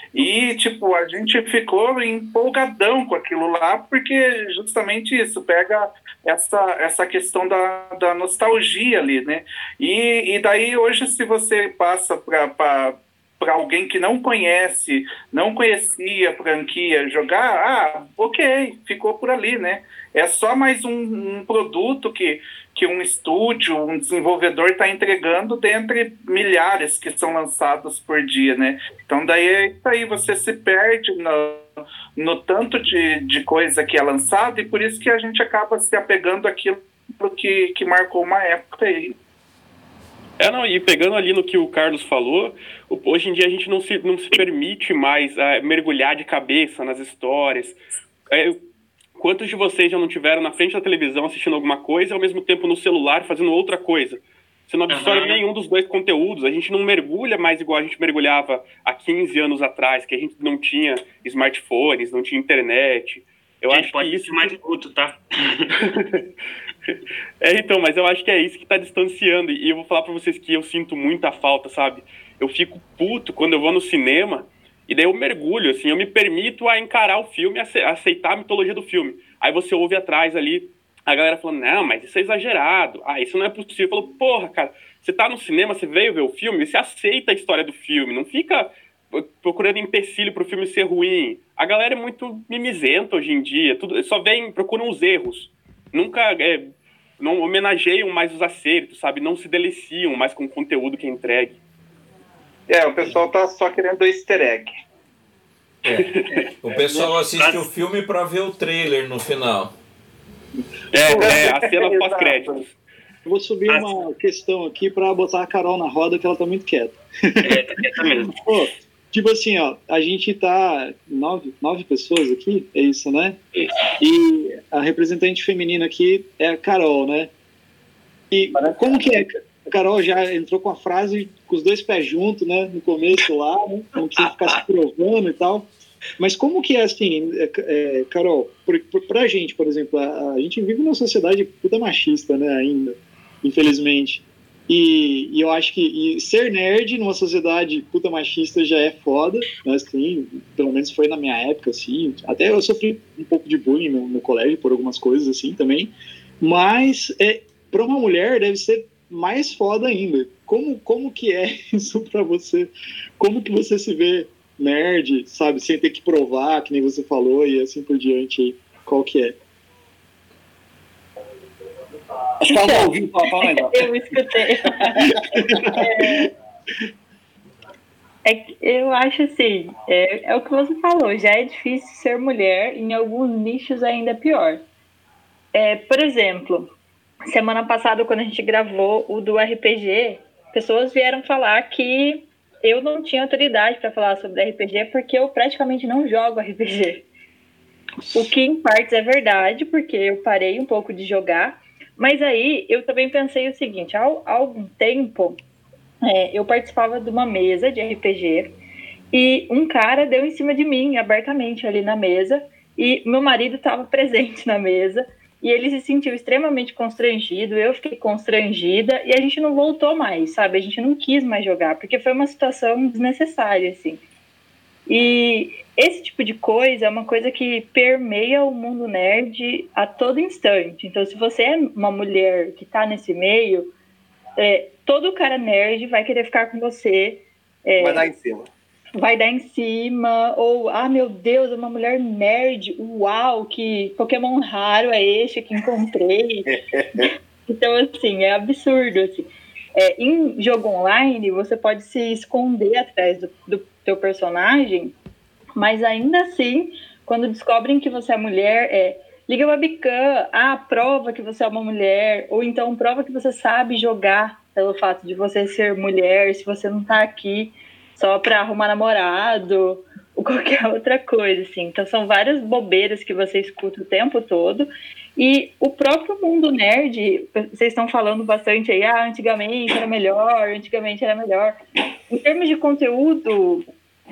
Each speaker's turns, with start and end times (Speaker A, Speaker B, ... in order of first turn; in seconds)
Speaker A: 0.1-39.1, 102.7-104.7, 111.1-112.6
Speaker B: 40.4-47.8, 48.3-48.6, 49.1-64.6, 65.8-66.2, 67.4-101.6, 106.0-106.5, 110.9-112.6
Speaker C: 54.9-55.4, 63.7-65.8, 117.4-118.4
Speaker D: 105.8-106.1, 106.6-109.7
Speaker E: 113.2-123.4, 124.0-127.3, 128.3-169.3, 175.4-175.8
Speaker F: 172.4-173.8, 237.8-238.5, 246.5-247.1
Speaker G: 172.4-176.3, 178.2-184.6, 185.5-186.7, 187.3-197.1, 198.1-205.4, 206.0-208.5, 209.1-224.0, 224.9-233.7, 234.4-238.1, 239.0-246.5, 247.5-254.9, 255.6-281.6, 282.1-283.6